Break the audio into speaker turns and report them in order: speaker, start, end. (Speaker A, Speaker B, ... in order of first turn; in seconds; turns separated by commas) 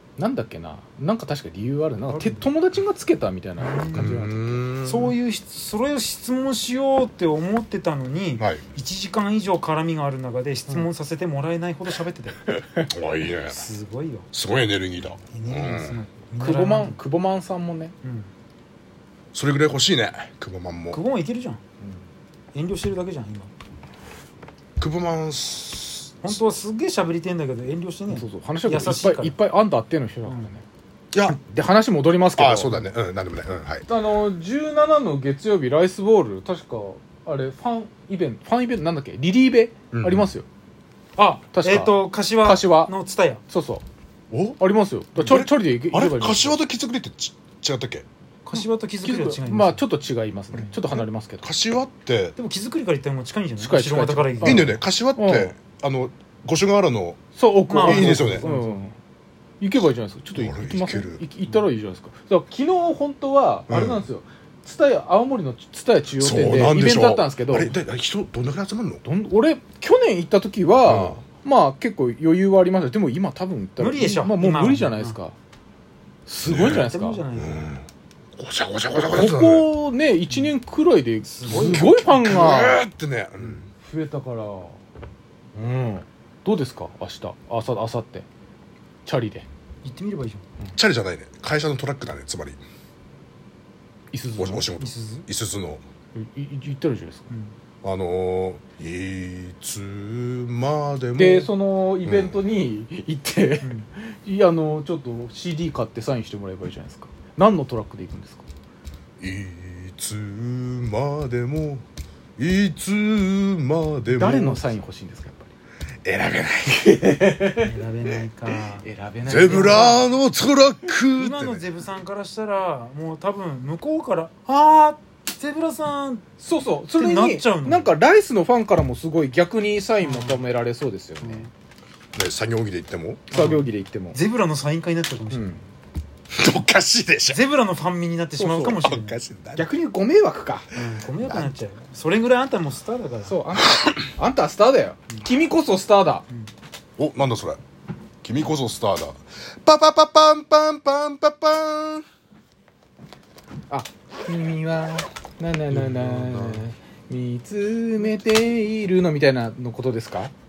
Speaker A: 0.2-4.6, Speaker B: 2.1-2.5, Speaker B: 3.6-4.2, Speaker C: 3.9-5.2, Speaker B: 4.8-12.4, Speaker A: 12.5-12.9, Speaker C: 12.9-13.6, Speaker B: 13.5-14.3, Speaker C: 14.3-16.0, Speaker B: 15.3-17.0, Speaker A: 16.4-17.9, Speaker B: 18.0-18.3, Speaker C: 19.3-21.0, Speaker B: 20.9-21.6, Speaker B: 22.5-23.5, Speaker C: 24.8-26.4, Speaker B: 26.2-29.4, Speaker A: 28.1-30.6, Speaker C: 31.1-31.4, Speaker A: 31.2-32.8, Speaker C: 32.4-33.9, Speaker A: 33.9-40.5, Speaker C: 39.9-40.3, Speaker B: 41.2-43.4, Speaker A: 41.5-42.9, Speaker A: 43.5-43.8, Speaker C: 44.3-44.6, Speaker A: 44.6-46.6, Speaker C: 45.1-48.1, Speaker B: 48.5-49.9, Speaker A: 48.5-51.5, Speaker C: 50.9-52.4, Speaker B: 52.4-54.7, Speaker A: 53.6-55.5, Speaker C: 54.4-57.2, Speaker A: 57.4-59.0, Speaker B: 57.7-58.8, Speaker C: 57.8-58.5, Speaker A: 59.6-67.8, Speaker C: 60.4-61.2, Speaker C: 63.7-64.1, Speaker C: 66.2-69.0, Speaker A: 69.0-75.3, Speaker C: 70.8-71.2, Speaker B: 73.8-75.2, Speaker A: 76.3-77.2, Speaker C: 76.5-77.8, Speaker B: 76.6-77.7, Speaker C: 78.4-79.7, Speaker A: 78.9-82.8, Speaker B: 80.3-80.5, Speaker B: 81.2-82.1, Speaker C: 81.5-83.7, Speaker A: 83.5-84.8, Speaker A: 85.5-88.3, Speaker A: 89.1-89.5, Speaker B: 89.8-90.4, Speaker C: 90.8-92.6, Speaker A: 94.1-94.7, Speaker C: 94.4-95.8, Speaker B: 94.8-95.3, Speaker A: 96.2-97.3, Speaker C: 97.8-101.5, Speaker A: 101.2-108.4, Speaker C: 102.0-102.4, Speaker B: 103.6-103.9, Speaker C: 109.2-111.8, Speaker C: 112.4-114.7, Speaker A: 114.1-115.5, Speaker C: 116.0-116.8, Speaker A: 116.7-117.7, Speaker B: 117.6-118.9, Speaker A: 118.8-120.1, Speaker C: 119.2-121.7, Speaker B: 119.5-119.9, Speaker B: 121.2-126.3, Speaker A: 126.4-131.5, Speaker B: 126.9-127.9, Speaker B: 130.0-130.5, Speaker B: 131.2-131.5, Speaker C: 132.2-133.3, Speaker A: 133.3-134.2, Speaker B: 133.3-135.5, Speaker A: 135.3-135.6, Speaker C: 136.3-137.4, Speaker B: 137.3-139.2, Speaker A: 138.4-138.8, Speaker C: 138.7-139.7, Speaker A: 139.6-140.7, Speaker B: 140.7-143.4, Speaker C: 141.2-141.5, Speaker A: 143.2-146.2, Speaker C: 147.0-147.6, Speaker C: 148.2-152.1, Speaker A: 153.7-160.3, Speaker C: 155.7-156.7